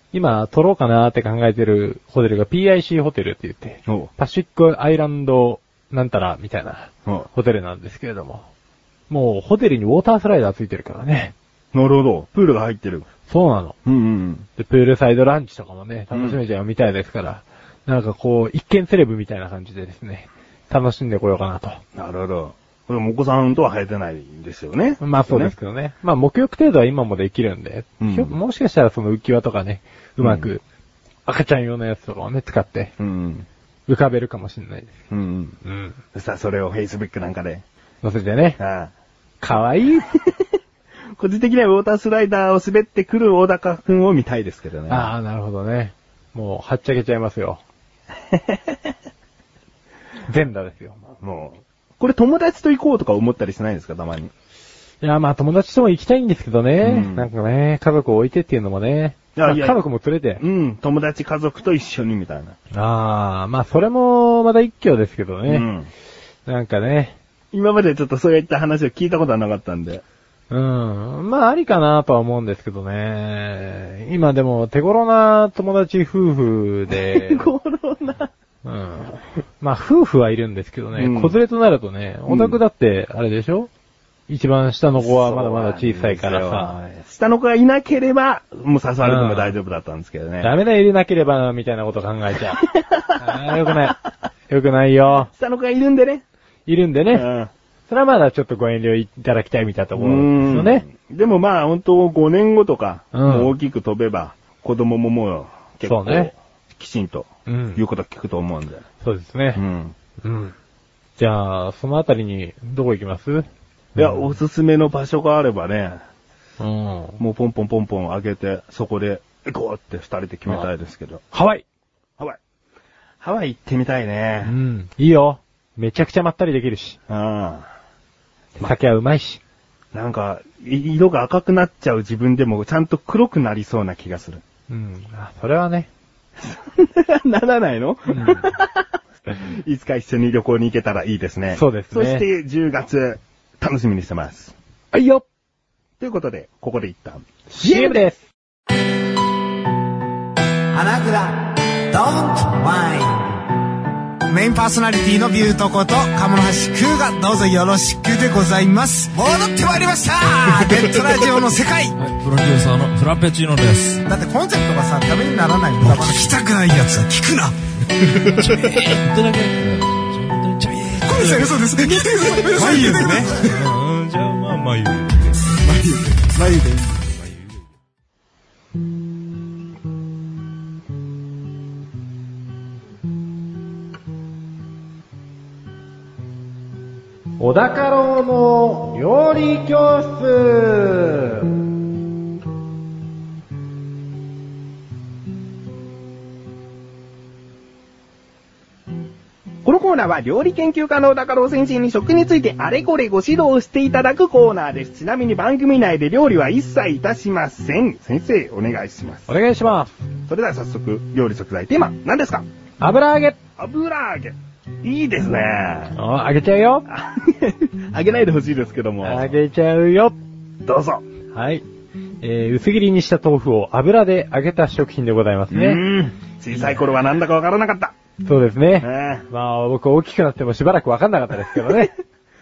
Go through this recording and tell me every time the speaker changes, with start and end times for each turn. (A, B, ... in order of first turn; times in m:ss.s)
0:00.1-0:08.4 A
0:09.1-0:11.3 A
0:11.7-0:13.1 B
0:13.3-0:13.7 A
0:13.8-0:14.5 B
0:14.6-0:21.8 A
0:16.1-0:16.4 B
0:22.0-0:25.5 B
0:25.0-0:30.6 A
0:28.0-0:28.3 B
0:30.2-0:30.5 B
0:31.3-0:32.9 A
0:33.0-0:33.4 B
0:33.9-0:34.9 A
0:35.1-0:35.6 B
0:35.6-0:36.0 A
0:36.1-0:37.6 B
0:38.0-0:38.6 A
0:38.6-0:38.9 B
0:39.4-0:40.2 A
0:41.2-0:45.1 B
0:44.9-0:47.6 A
0:50.3-0:51.0 A
0:51.2-0:54.3 B
0:55.0-1:00.4 A
0:56.8-0:57.3 B
0:59.3-0:59.8 B
1:00.4-1:02.6 B
1:02.7-1:05.6 A
1:05.5-1:05.9 B
1:06.4-1:07.2 A
1:07.5-1:10.0 B
1:10.5-1:17.5 A
1:16.9-1:18.3 B
1:18.6-1:23.7 A
1:21.0-1:21.4 B
1:22.3-1:22.6 B
1:24.3-1:26.8 A
1:25.0-1:30.5 B
1:29.0-1:29.5 A
1:30.4-1:32.6 A
1:32.6-1:33.9 B
1:33.2-1:34.0 A
1:34.5-1:35.3 A
1:35.3-1:36.2 B
1:36.6-1:37.3 A
1:37.1-1:37.5 B
1:37.9-1:40.8 A
1:40.0-1:48.8 B
1:43.1-1:43.5 A
1:45.8-1:46.3 A
1:47.5-1:47.8 A
1:49.0-1:49.6 A
1:49.5-1:49.9 B
1:50.2-1:50.5 A
1:51.2-1:54.3 A
1:54.0-1:56.0 B
1:56.6-1:57.2 A
1:57.2-2:01.2 B
2:01.3-2:01.6 A
2:03.2-2:04.5 B
2:04.4-2:07.0 A
2:07.1-2:07.7 B
2:08.6-2:09.4 A
2:09.9-2:14.4 B
2:14.7-2:15.9 A
2:16.4-2:18.8 B
2:18.1-2:18.4 A
2:19.4-2:24.5 B
2:21.5-2:22.2 A
2:24.9-2:25.2 A
2:26.0-2:28.0 B
2:27.5-2:28.3 A
2:30.7-2:33.4 C
2:34.3-2:42.0 C
2:42.0-2:44.0 D
2:44.0-2:47.6 C
2:45.8-2:46.3 D
2:48.0-2:57.6 D
2:48.2-2:48.9 C
2:51.0-2:53.6 C
2:55.6-2:57.0 C
3:07.4-3:11.5 A
3:19.6-3:29.3 B
3:29.3-3:30.0 A
3:30.3-3:32.4 B
3:32.8-3:33.4 A
3:33.6-3:35.9 B
3:36.0-3:36.8 A
3:36.9-3:39.4 B
3:39.0-3:40.2 A
3:40.6-3:41.0 B
3:41.3-3:41.6 A
3:42.2-3:45.8 A
3:45.5-3:47.9 B
3:46.5-3:46.8 A
3:48.2-3:51.9 A
3:48.8-3:49.3 B